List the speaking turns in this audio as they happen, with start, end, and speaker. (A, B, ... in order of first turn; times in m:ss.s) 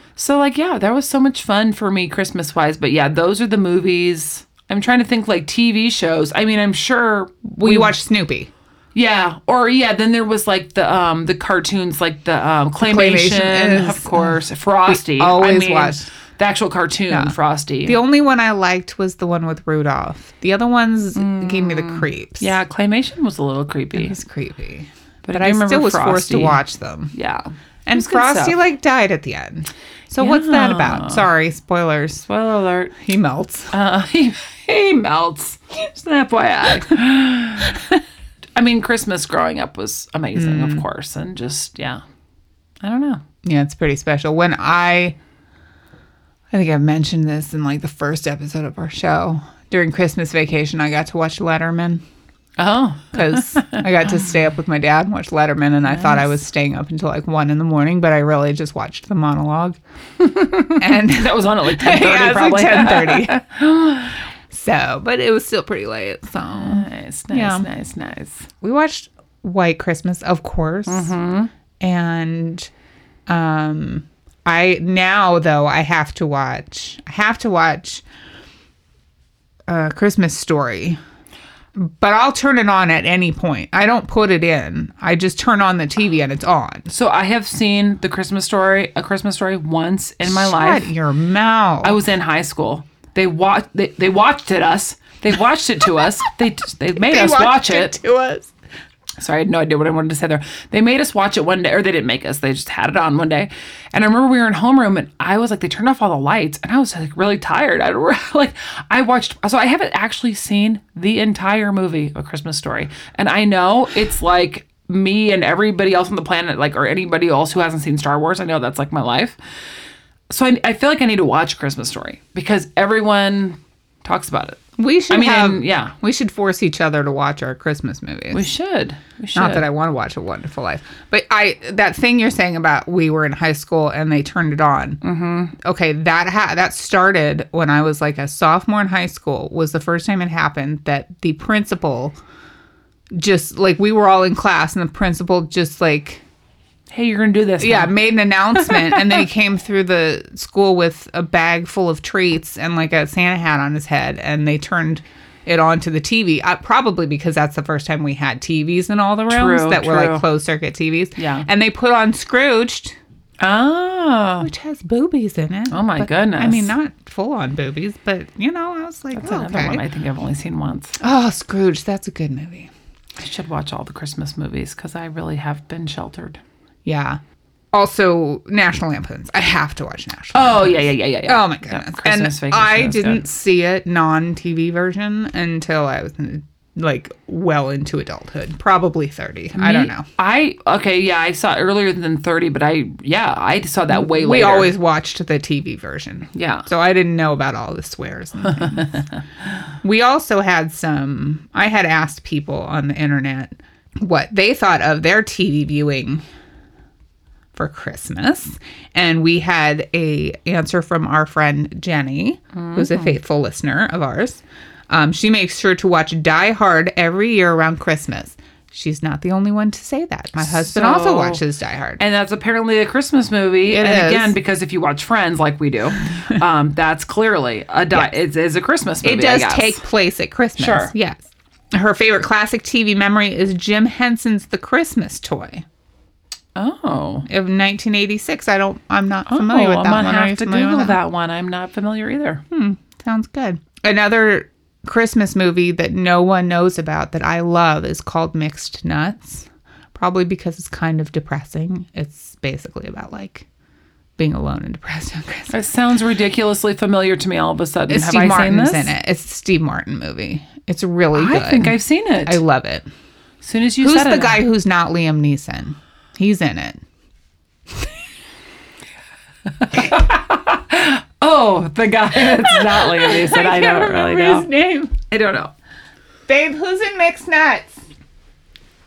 0:00.2-0:07.9 A
0:07.5-0:08.5 B
0:08.9-0:18.0 A
0:12.8-0:16.1 B
0:17.1-0:22.6 B
0:21.2-0:24.2 A
0:23.9-0:27.1 B
0:25.2-0:26.6 A
0:27.1-0:28.6 A
0:27.9-0:32.2 B
0:30.2-0:31.2 A
0:32.2-0:32.9 A
0:33.0-0:33.7 B
0:33.7-0:37.8 A
0:38.6-0:42.0 A
0:40.4-0:40.8 B
0:42.8-0:43.2 A
0:43.4-0:45.2 B
0:46.5-0:52.0 B
0:52.6-0:53.9 A
0:53.1-0:59.8 B
0:55.9-0:56.3 A
1:00.2-1:04.2 A
1:00.8-1:03.4 B
1:04.5-1:07.7 B
1:06.5-1:08.5 A
1:08.6-1:11.2 B
1:10.9-1:11.5 A
1:11.8-1:12.7 B
1:13.3-1:18.0 B
1:19.7-1:21.0 B
1:21.8-1:26.9 B
1:26.9-1:30.9 A
1:30.2-1:32.0 B
1:31.8-1:38.0 A
1:36.9-1:38.5 B
1:39.2-1:59.4 A
2:00.3-2:04.6 A
2:04.8-2:08.5 B
2:05.1-2:05.9 A
2:08.3-2:09.7 A
2:09.4-2:15.0 B
2:15.0-2:15.6 A
2:15.6-2:22.2 B
2:23.2-2:26.2 B
2:26.9-2:28.0 A
2:27.6-2:43.0 B
2:28.6-2:29.2 A
2:39.3-2:40.3 A
2:41.2-2:41.5 A
2:43.4-2:44.5 A
2:44.4-2:49.8 B
2:45.7-2:46.8 A
2:49.2-2:51.0 A
2:51.0-2:52.7 B
2:53.2-2:56.4 A
2:56.8-2:57.2 B
2:57.7-3:10.1 B
3:00.3-3:03.2 A
3:09.6-3:14.7 A
3:13.9-3:19.0 B
3:16.3-3:16.7 A
3:18.6-3:19.0 A
3:19.8-3:26.2 B
3:27.6-3:42.0 B
3:32.6-3:33.2 A
3:40.4-3:41.4 A
3:42.0-3:49.8 A
3:43.7-3:44.4 B
3:49.0-3:55.6 B
3:50.6-3:50.9 A
3:56.6-3:57.3 A
3:57.3-4:01.0 B
3:59.3-4:02.4 A
4:02.5-4:13.5 B
4:14.2-4:15.6 B
4:15.5-4:18.9 A
4:17.9-4:22.9 B
4:21.1-4:22.4 A
4:23.4-4:24.4 A
4:23.8-4:26.8 B
4:29.5-4:34.5 A
4:32.2-4:34.9 B
4:35.1-4:35.5 A
4:36.3-4:37.8 B